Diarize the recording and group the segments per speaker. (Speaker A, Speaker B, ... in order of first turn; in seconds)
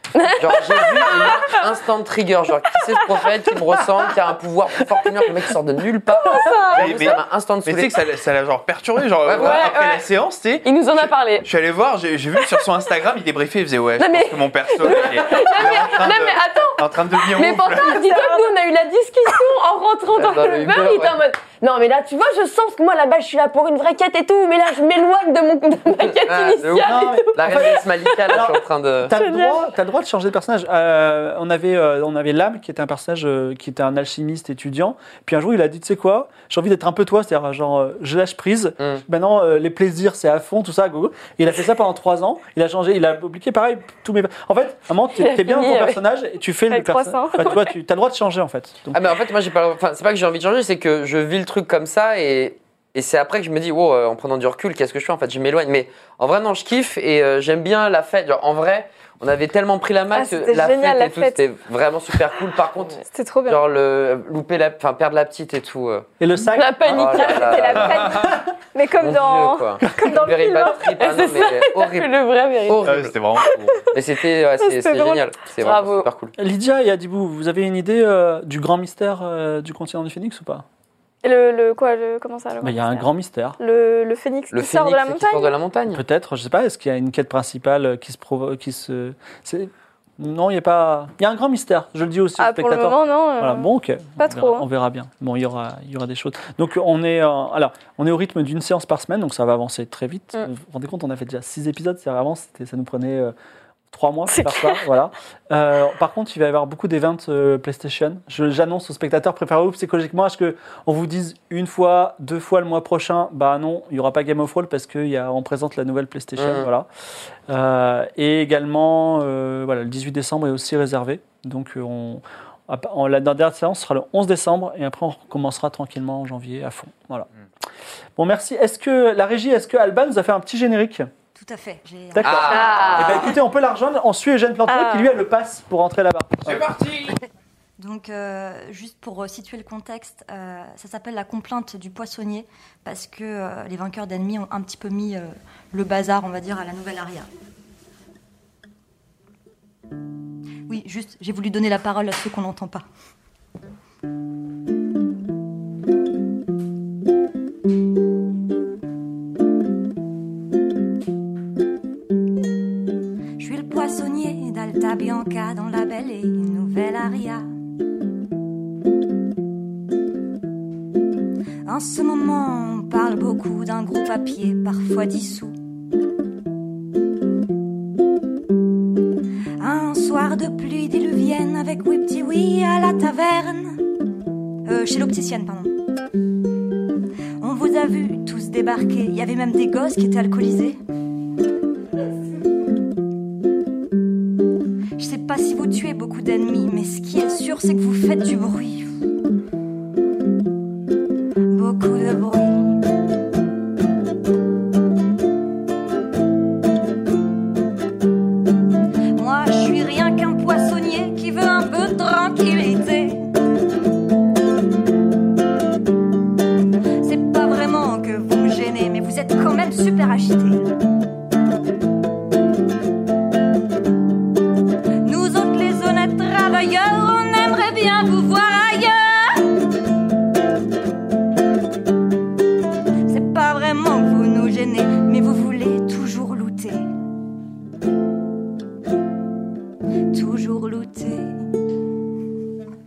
Speaker A: 0.1-1.6, 3.2-3.6, 6.3-6.7, 9.3-10.1, 10.6-11.5, 14.0-28.1, 45.2-45.9, 66.4-67.7, 71.0-72.9, 75.6-76.1, 132.5-133.2
Speaker B: 0.3-8.0, 9.2-9.7, 20.1-21.2, 26.3-29.1, 48.9-66.1, 66.8-68.2, 69.0-72.1, 72.7-73.3, 73.8-76.3, 84.5-86.0, 116.4-116.7, 132.2-133.2
Speaker C: 6.7-18.1, 72.8-73.8, 136.4-137.2
Speaker D: 18.0-18.5, 29.1-29.7, 46.7-47.7, 60.1-61.4, 63.1-63.6, 67.1-71.0, 74.6-75.2, 81.2-83.1, 83.6-85.5, 92.4-94.7, 104.3-104.8, 134.7-135.1
Speaker E: 26.8-49.0, 66.2-67.3, 67.9-68.5, 69.8-70.3, 76.3-80.7, 82.6-83.6, 85.9-103.3, 103.9-116.9, 117.5-127.3, 128.2-131.1, 132.1-136.7
Speaker F: 131.3-132.4, 137.8-147.3, 150.7-152.8, 163.4-167.5, 171.7-175.6, 179.6-183.8, 184.6-185.8, 187.4-190.8, 195.0-198.9, 201.5-202.8, 209.1-213.3, 217.0-220.7, 225.0-229.5, 233.1-236.9, 240.1-241.6